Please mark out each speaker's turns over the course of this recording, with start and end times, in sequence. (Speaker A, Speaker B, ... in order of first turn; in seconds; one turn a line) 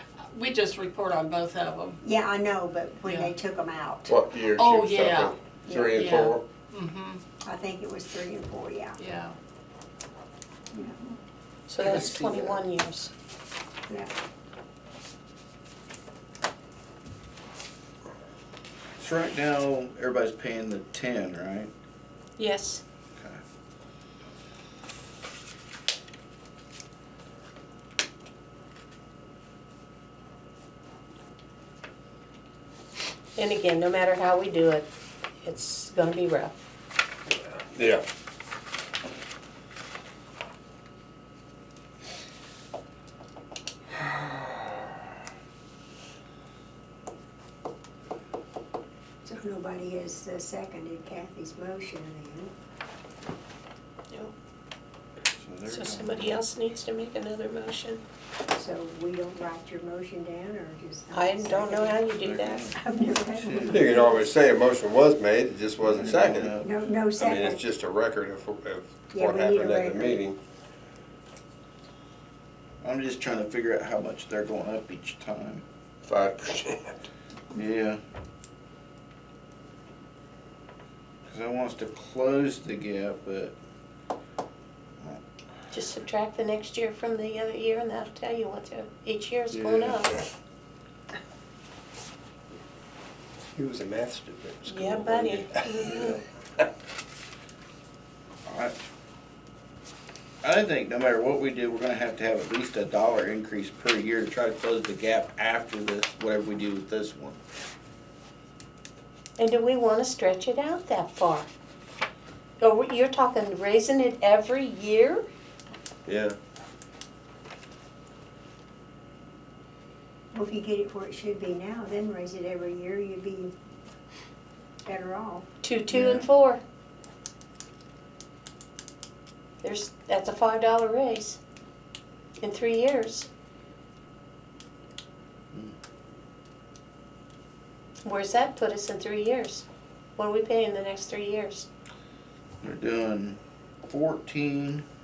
Speaker A: 0.3-2.0
Speaker B: 2.0-4.1
Speaker A: 3.0-3.3
Speaker C: 4.1-6.4
Speaker A: 4.5-5.3
Speaker B: 5.6-6.0
Speaker A: 5.9-7.2
Speaker B: 7.4-9.0
Speaker A: 9.0-9.3
Speaker B: 10.7-11.0
Speaker D: 11.7-13.1
Speaker B: 11.8-12.6
Speaker E: 19.0-21.7
Speaker D: 22.4-22.8
Speaker D: 33.4-34.9
Speaker D: 35.4-36.5
Speaker C: 37.7-38.0
Speaker B: 49.2-52.5
Speaker E: 55.3-56.4
Speaker D: 55.7-58.0
Speaker B: 58.5-62.1
Speaker D: 61.1-62.7
Speaker E: 62.2-62.8
Speaker B: 62.7-64.3
Speaker E: 63.3-63.9
Speaker C: 63.7-66.6
Speaker E: 65.8-66.7
Speaker B: 66.5-67.6
Speaker C: 67.2-70.4
Speaker B: 69.1-70.2
Speaker E: 72.8-75.6
Speaker C: 76.0-77.0
Speaker E: 77.5-78.0
Speaker E: 81.2-83.5
Speaker D: 85.7-90.2
Speaker C: 89.5-90.2
Speaker C: 93.5-96.6
Speaker D: 94.7-96.1
Speaker E: 98.4-98.7
Speaker E: 100.4-107.4
Speaker D: 109.4-111.5
Speaker D: 112.6-115.2
Speaker E: 116.0-116.3
Speaker B: 120.3-123.5
Speaker B: 124.8-125.5
Speaker D: 125.6-126.6
Speaker E: 125.9-126.3
Speaker D: 129.6-131.4
Speaker D: 132.4-133.3
Speaker D: 138.0-139.6
Speaker D: 140.2-141.7
Speaker E: 142.6-144.8